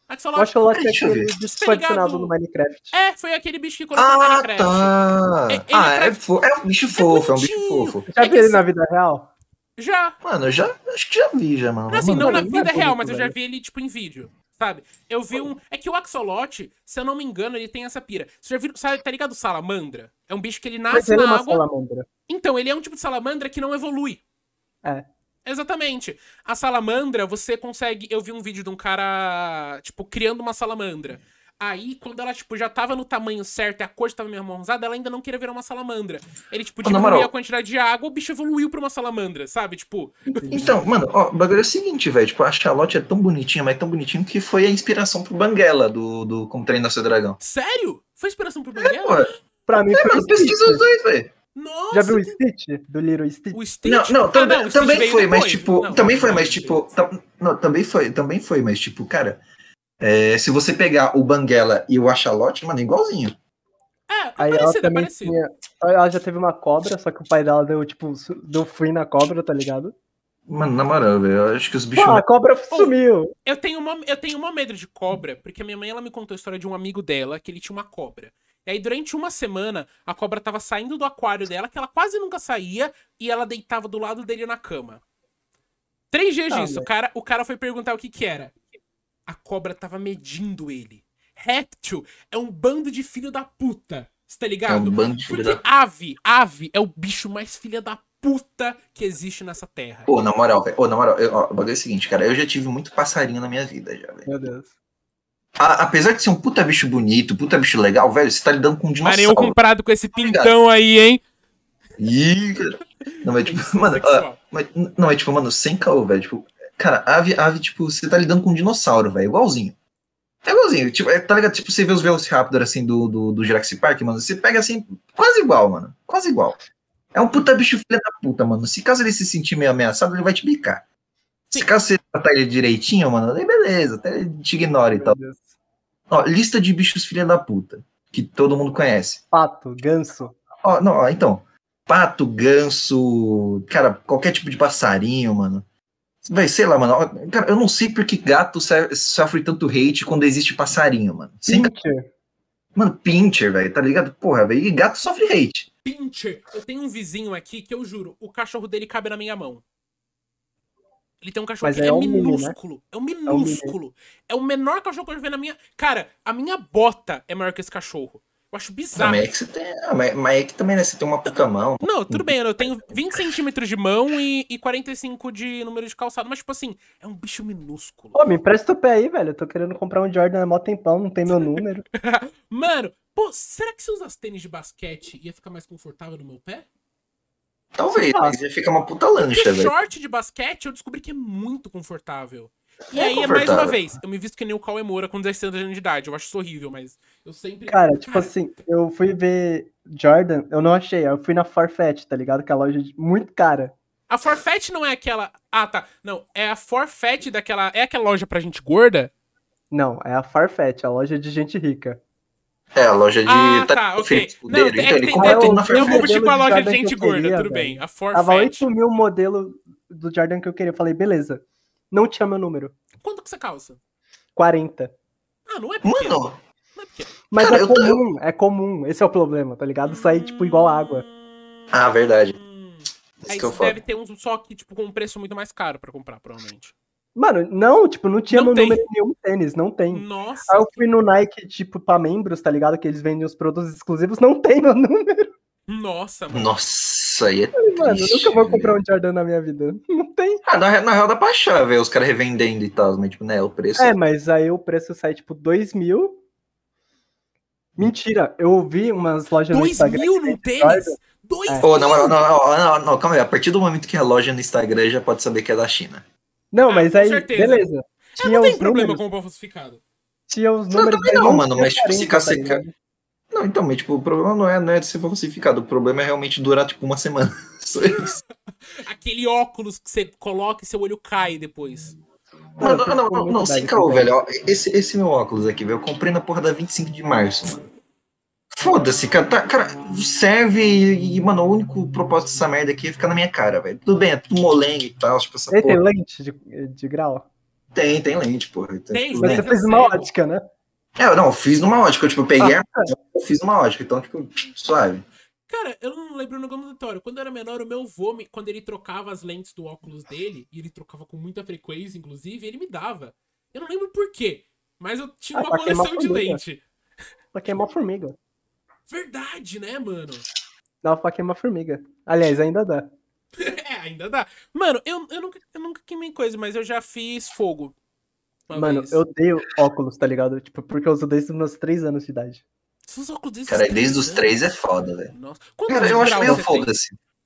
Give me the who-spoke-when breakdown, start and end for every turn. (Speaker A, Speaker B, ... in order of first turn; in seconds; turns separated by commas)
Speaker A: 0.1-0.6, Speaker B: 0.3-2.9, Speaker C: 0.7-1.3, Speaker A: 1.4-2.3, Speaker A: 2.9-4.9, Speaker C: 3.9-8.1, Speaker A: 5.5-6.2, Speaker A: 6.9-8.6, Speaker B: 8.1-9.3, Speaker A: 9.8-10.2, Speaker C: 10.2-12.7, Speaker A: 11.9-21.6, Speaker B: 12.1-13.3, Speaker B: 20.9-22.1, Speaker A: 22.3-24.2, Speaker A: 25.4-40.6, Speaker C: 36.8-37.3, Speaker B: 40.4-40.8, Speaker C: 40.5-47.4, Speaker A: 47.4-49.3, Speaker C: 48.8-49.3, Speaker B: 49.7-50.8, Speaker C: 49.9-51.3, Speaker A: 51.5-52.4, Speaker B: 51.9-53.6, Speaker A: 53.5-56.8, Speaker C: 53.8-59.4, Speaker C: 60.0-63.4, Speaker A: 64.1-65.4, Speaker B: 64.4-69.9, Speaker C: 70.5-72.2, Speaker B: 72.0-73.3, Speaker A: 72.7-85.0, Speaker A: 86.1-88.5, Speaker B: 86.5-86.9, Speaker A: 89.3-100.1, Speaker C: 94.7-95.6, Speaker C: 100.1-104.3, Speaker B: 104.2-104.7, Speaker C: 105.6-109.6, Speaker A: 109.0-111.2, Speaker C: 110.1-110.5, Speaker C: 112.0-119.8, Speaker A: 113.1-114.4, Speaker C: 120.4-126.6, Speaker C: 127.1-130.8, Speaker C: 131.5-135.2, Speaker B: 134.9-135.5, Speaker C: 136.1-139.2, Speaker B: 139.3-140.3, Speaker C: 140.6-145.7, Speaker C: 146.2-151.7, Speaker B: 151.5-152.1, Speaker C: 152.7-155.7, Speaker A: 155.8-159.6, Speaker A: 161.2-169.2, Speaker B: 161.6-162.6, Speaker B: 163.3-163.8, Speaker C: 168.9-173.3, Speaker A: 171.2-178.2, Speaker B: 178.1-181.8, Speaker A: 181.3-186.7, Speaker C: 187.7-189.7, Speaker B: 187.9-188.4, Speaker A: 189.3-198.3, Speaker C: 192.9-193.8, Speaker B: 197.7-203.7, Speaker A: 204.1-209.1, Speaker B: 209.7-212.0, Speaker C: 212.7-216.2, Speaker A: 213.2-218.7, Speaker B: 215.2-222.7, Speaker A: 223.0-223.8, Speaker B: 224.3-224.9, Speaker A: 225.5-227.1, Speaker C: 225.8-226.4, Speaker B: 227.3-231.0, Speaker C: 227.3-228.0, Speaker A: 229.8-236.7, Speaker C: 231.7-232.4, Speaker C: 233.2-233.8, Speaker B: 237.1-245.3, Speaker A: 238.3-238.8, Speaker A: 239.9-240.8, Speaker A: 245.7-246.5, Speaker C: 246.3-248.8, Speaker B: 247.6-250.4, Speaker C: 250.4-253.9, Speaker B: 253.8-256.2, Speaker B: 257.8-261.7, Speaker A: 259.5-262.2, Speaker C: 261.6-266.0, Speaker B: 266.5-269.0, Speaker A: 266.7-269.8, Speaker B: 270.3-272.7, Speaker C: 270.7-272.6, Speaker C: 273.3-278.2, Speaker A: 277.8-278.2, Speaker A: 278.8-281.9, Speaker C: 282.6-287.6, Speaker B: 282.6-284.1, Speaker C: 288.5-295.8, Speaker B: 295.5-297.3, Speaker C: 297.7-299.5, Speaker A: 298.9-300.1, Speaker B: 299.2-300.4, Speaker C: 301.0-305.0, Speaker B: 302.4-302.9, Speaker A: 305.5-316.6, Speaker B: 315.3-316.4, Speaker B: 317.3-318.2, Speaker A: 318.9-320.2, Speaker B: 320.8-322.9, Speaker A: 323.4-327.7, Speaker A: 328.5-329.0, Speaker B: 328.5-332.4, Speaker A: 332.9-334.4, Speaker C: 333.5-335.1, Speaker A: 335.1-336.7, Speaker C: 335.7-336.9